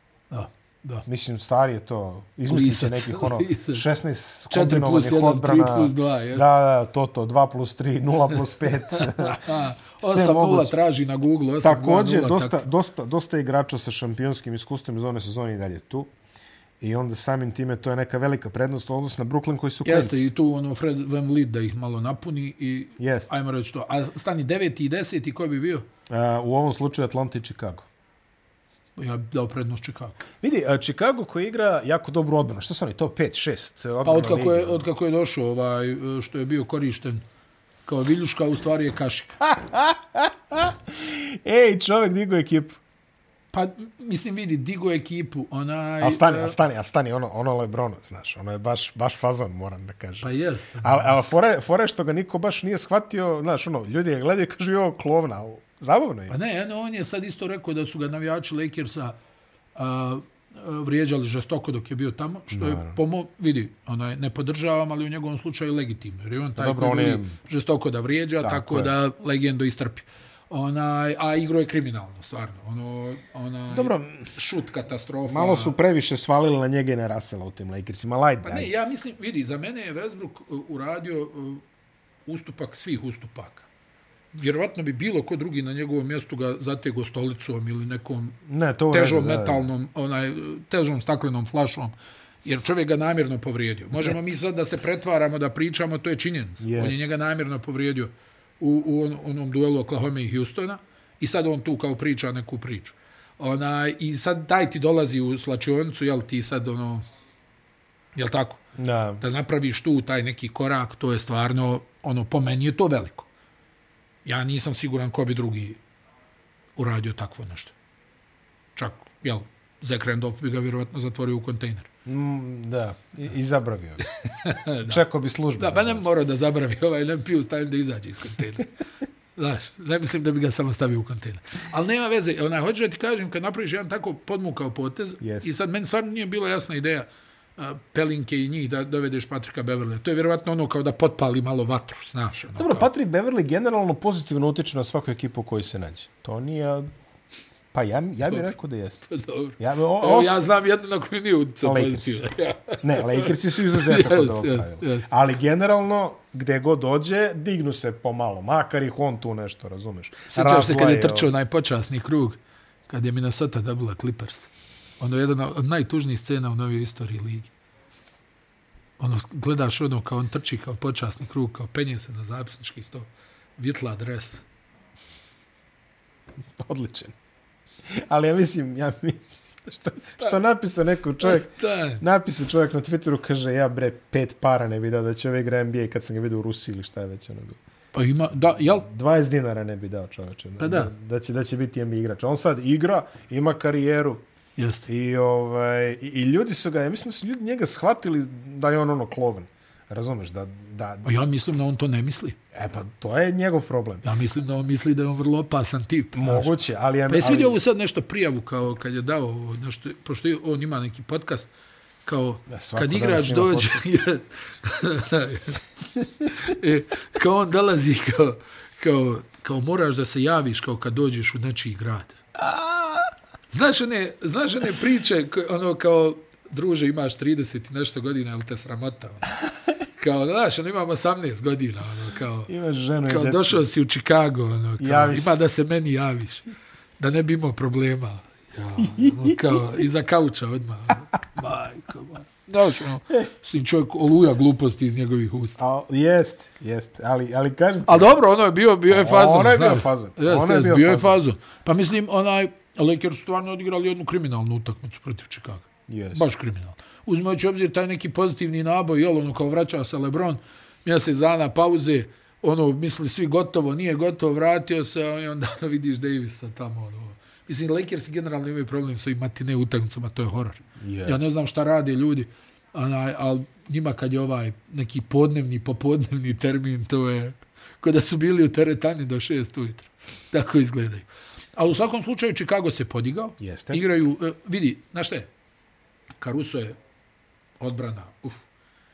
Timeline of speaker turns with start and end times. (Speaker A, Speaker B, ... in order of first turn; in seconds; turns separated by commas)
Speaker A: 0.3-1.1, Speaker B: 1.1-10.8, Speaker A: 2.5-3.9, Speaker A: 4.5-6.5, Speaker A: 8.9-12.7, Speaker B: 11.6-16.1, Speaker B: 16.8-20.3, Speaker A: 19.9-25.9, Speaker B: 23.0-23.3, Speaker B: 26.1-27.9, Speaker A: 29.0-30.2, Speaker B: 30.4-34.9, Speaker A: 34.0-37.2, Speaker A: 37.9-39.4, Speaker B: 39.4-42.8, Speaker A: 43.5-46.6, Speaker B: 46.0-50.3, Speaker A: 50.2-51.3, Speaker B: 50.8-56.3, Speaker A: 56.3-59.1, Speaker A: 59.8-75.8, Speaker B: 62.5-63.0, Speaker B: 66.6-67.3, Speaker B: 68.4-68.9, Speaker B: 73.7-74.3, Speaker B: 75.3-78.8, Speaker A: 78.4-81.6, Speaker A: 82.3-83.7, Speaker A: 84.3-88.4, Speaker B: 88.5-89.7, Speaker A: 88.9-107.0, Speaker B: 96.6-97.0, Speaker A: 108.2-108.6, Speaker B: 108.8-109.2, Speaker A: 109.2-113.3, Speaker A: 114.2-115.8, Speaker A: 116.8-117.7, Speaker A: 118.8-121.9, Speaker B: 122.0-124.0, Speaker A: 124.1-125.0, Speaker B: 124.8-126.0, Speaker A: 125.6-128.7, Speaker A: 129.4-142.9, Speaker B: 135.2-135.5, Speaker B: 142.6-146.9, Speaker B: 147.7-149.1, Speaker A: 149.1-155.1, Speaker B: 149.6-150.4, Speaker B: 151.6-152.2, Speaker B: 152.8-161.3, Speaker A: 160.3-162.4, Speaker A: 162.9-167.5, Speaker A: 169.0-174.4, Speaker B: 176.6-177.1, Speaker B: 177.9-187.6, Speaker A: 181.2-182.0, Speaker A: 187.9-188.9, Speaker B: 188.6-194.2, Speaker A: 190.6-190.9, Speaker A: 194.6-194.9, Speaker B: 194.9-201.1, Speaker A: 201.1-202.4, Speaker B: 202.5-204.0, Speaker A: 204.0-206.5, Speaker B: 206.2-207.6, Speaker A: 207.1-211.5, Speaker A: 212.1-222.2, Speaker B: 212.5-213.8, Speaker B: 222.4-223.0, Speaker A: 223.5-229.3, Speaker A: 229.9-232.5, Speaker B: 232.5-233.7, Speaker A: 233.1-236.5, Speaker B: 234.8-235.4, Speaker A: 237.0-245.6, Speaker B: 238.8-239.7, Speaker B: 245.6-248.2, Speaker A: 247.9-285.3, Speaker B: 248.9-251.2, Speaker B: 255.9-256.3, Speaker B: 270.8-271.2, Speaker B: 283.4-283.8, Speaker A: 286.2-286.8, Speaker A: 287.6-288.4